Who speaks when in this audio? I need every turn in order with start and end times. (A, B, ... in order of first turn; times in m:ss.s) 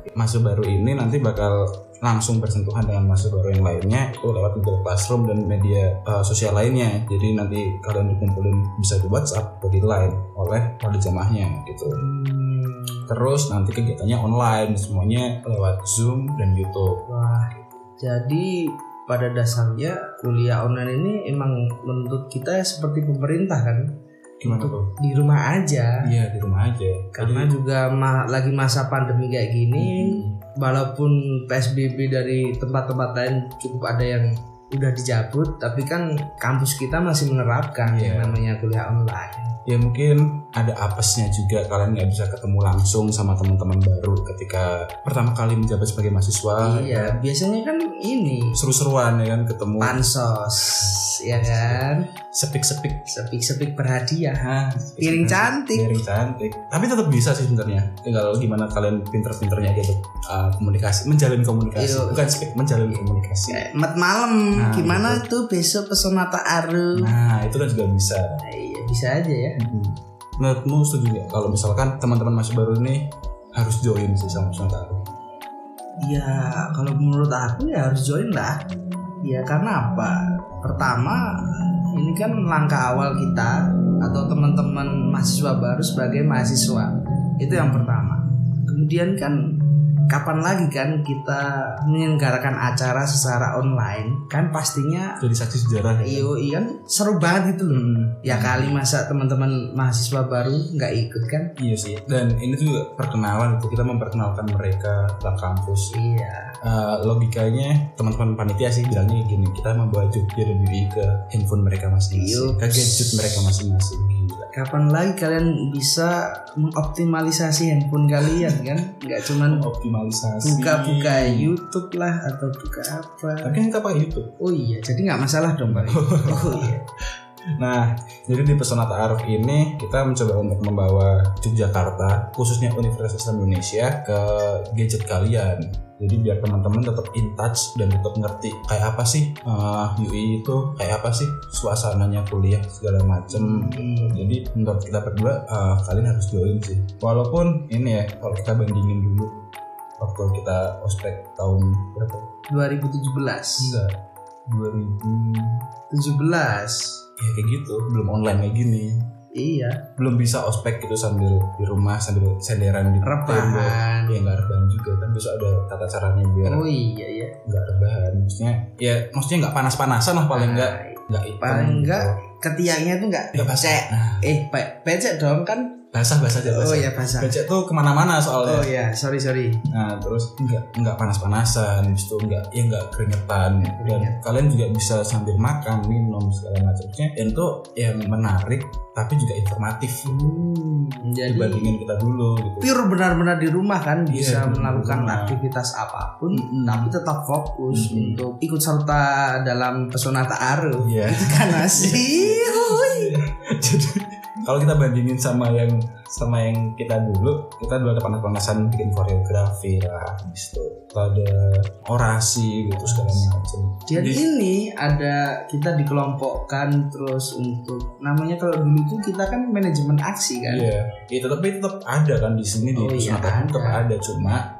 0:00.1-0:12.0 A
0:12.0-0:13.1 B
0:13.1-0:17.0 A
0:17.0-0:23.9 B
0:24.4-0:24.9 A
0:24.4-0:26.0 B
0:26.0-0:27.5 A
0:27.1-0:39.5 B
0:29.8-0:30.4 A
0:37.8-0:38.4 A
0:39.6-0:47.1 A
0:46.6-0:48.5 B
0:48.5-0:50.0 A
0:49.8-0:52.1 B
0:50.7-0:53.0 A
0:53.1-0:54.5 B
0:54.4-1:03.6 A
0:55.0-0:55.8 B
1:01.8-1:02.5 B
1:03.5-1:07.1 B
1:04.6-1:05.2 A
1:07.0-1:08.2 A
1:08.4-1:09.6 B
1:09.6-1:13.0 A
1:13.5-1:15.0 A
1:16.0-1:18.6 B
1:19.2-1:29.4 B
1:30.1-1:35.2 B
1:35.2-1:36.3 A
1:36.0-1:41.5 B
1:37.7-1:38.8 A
1:41.6-1:45.9 A
1:45.9-1:46.5 B
1:46.6-1:54.5 A
1:52.1-1:53.4 B
1:54.5-1:59.7 B
1:58.3-1:58.6 A
1:59.4-2:01.5 A
2:00.4-2:03.6 B
2:03.4-2:04.3 A
2:04.4-2:06.8 B
2:05.7-2:06.7 A
2:07.6-2:29.3 A
2:23.3-2:24.2 B
2:30.0-2:32.3 A
2:32.5-2:33.8 B
2:33.6-2:33.9 A
2:34.5-2:35.6 A
2:35.9-2:37.0 B
2:37.2-2:39.0 A
2:39.3-2:39.8 B
2:40.0-2:46.6 A
2:43.0-2:44.2 B
2:46.4-2:47.3 B
2:47.4-2:52.2 A
2:50.3-2:55.8 B
2:53.3-2:54.3 A
2:55.9-2:58.7 A
2:56.4-2:57.4 B
2:58.4-2:59.6 B
2:59.7-3:10.4 A
3:03.6-3:04.2 B
3:10.0-3:11.8 B
3:11.2-3:12.7 A
3:12.6-3:23.1 B
3:14.1-3:15.4 A
3:16.3-3:16.9 A
3:17.7-3:18.2 A
3:20.8-3:34.2 A
3:32.7-3:33.3 B
3:33.9-3:40.7 B
3:40.4-3:44.4 A
3:42.7-3:43.8 B